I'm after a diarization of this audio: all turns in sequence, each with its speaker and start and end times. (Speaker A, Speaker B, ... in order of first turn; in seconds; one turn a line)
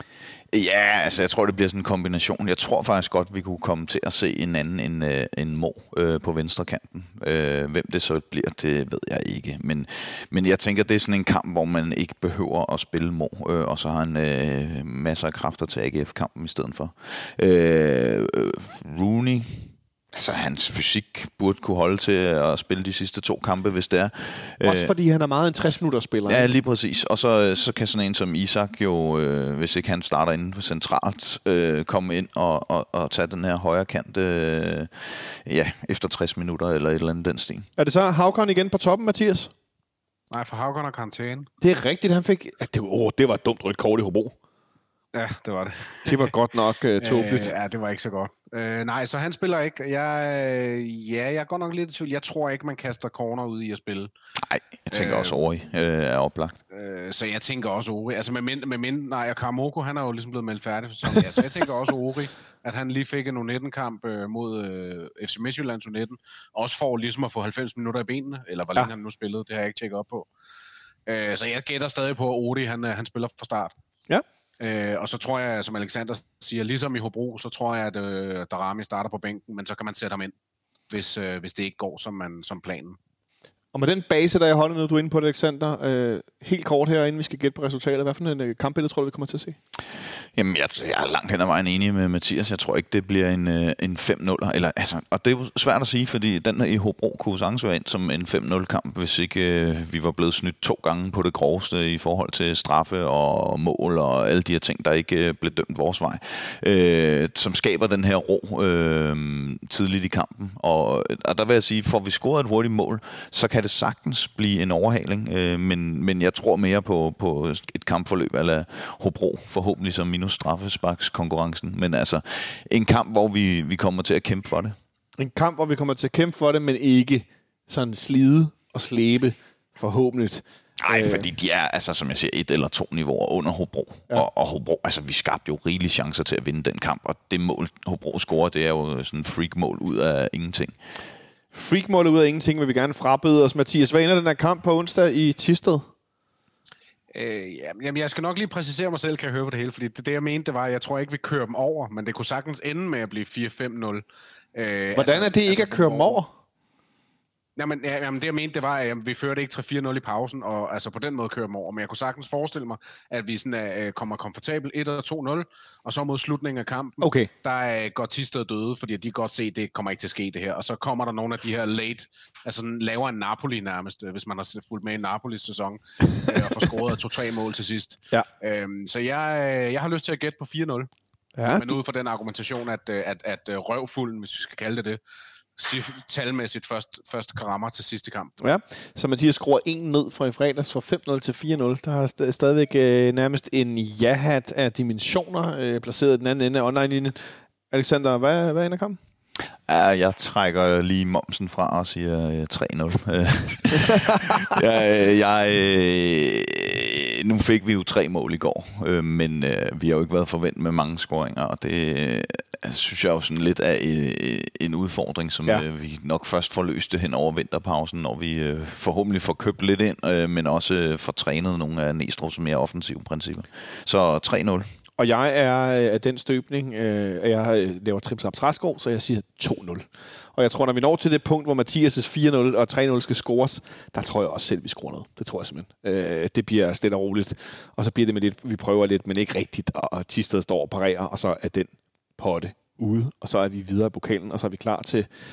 Speaker A: 0.5-24.9
Speaker B: 24.6-26.5
Speaker A: 26.3-37.7
Speaker B: 37.8-39.5
Speaker C: 40.3-41.5
Speaker B: 41.6-44.3
Speaker C: 45.1-46.2
Speaker B: 46.0-47.5
Speaker C: 47.0-54.1
Speaker A: 54.4-56.6
Speaker C: 54.9-55.3
Speaker C: 56.7-70.3
Speaker C: 71.1-73.7
Speaker C: 74.6-80.3
Speaker C: 80.9-83.0
Speaker B: 83.7-89.6
Speaker A: 90.3-124.8
Speaker B: 125.2-131.3
Speaker A: 130.8-140.7
Speaker B: 141.5-145.9
Speaker C: 147.1-154.0
Speaker C: 154.5-156.2
Speaker B: 154.9-156.3
Speaker C: 157.6-180.9
Speaker B: 167.0-167.3
Speaker B: 181.4-181.7
Speaker C: 181.4-185.0
Speaker C: 185.6-188.3
Speaker B: 188.4-197.2
Speaker B: 197.7-199.0
Speaker A: 199.7-224.6
Speaker B: 225.0-245.1